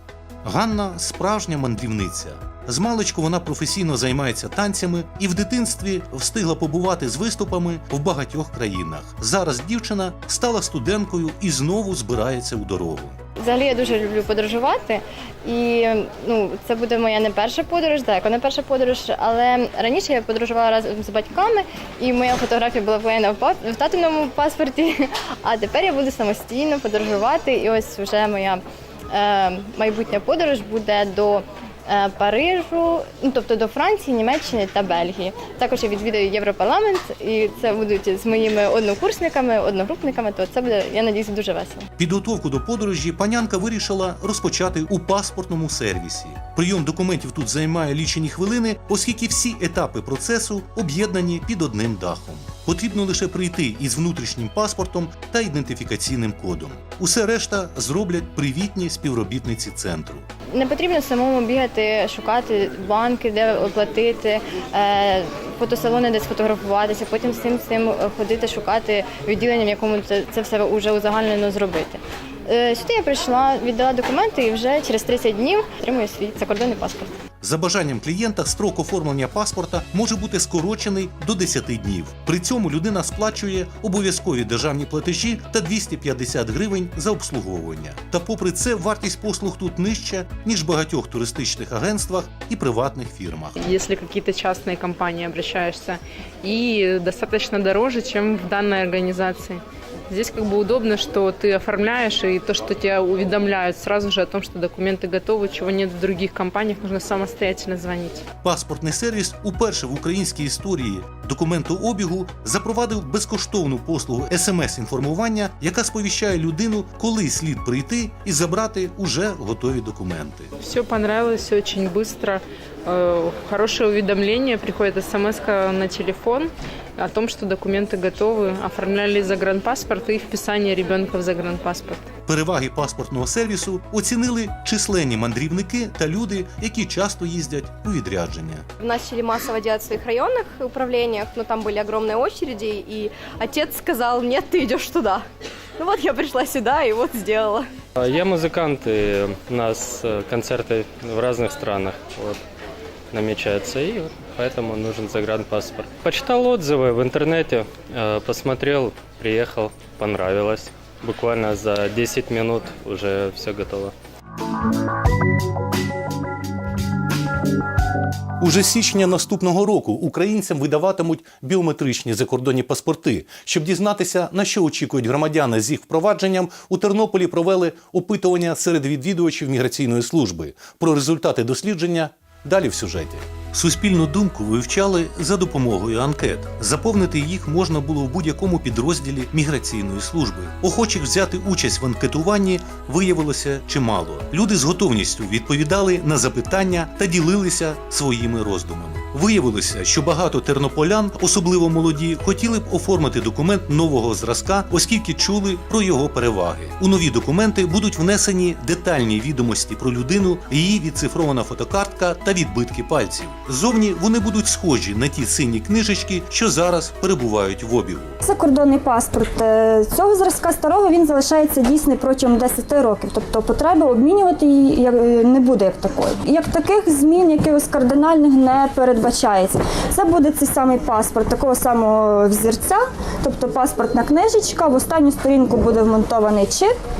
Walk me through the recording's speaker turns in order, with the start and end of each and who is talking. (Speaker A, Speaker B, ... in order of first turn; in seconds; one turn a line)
Speaker A: 0.4-13.2
Speaker B: 13.4-41.9
Speaker A: 42.0-60.2
Speaker B: 60.5-77.2
Speaker A: 77.4-93.5
Speaker C: 93.6-108.2
Speaker A: 108.4-120.5
Speaker C: 120.6-132.0
Speaker A: 132.3-138.6
Speaker D: 138.8-144.7
Speaker D: 145.8-147.5
Speaker E: 148.0-152.4
Speaker E: 153.1-163.9
Speaker A: 168.4-218.2
Speaker F: 218.2-236.7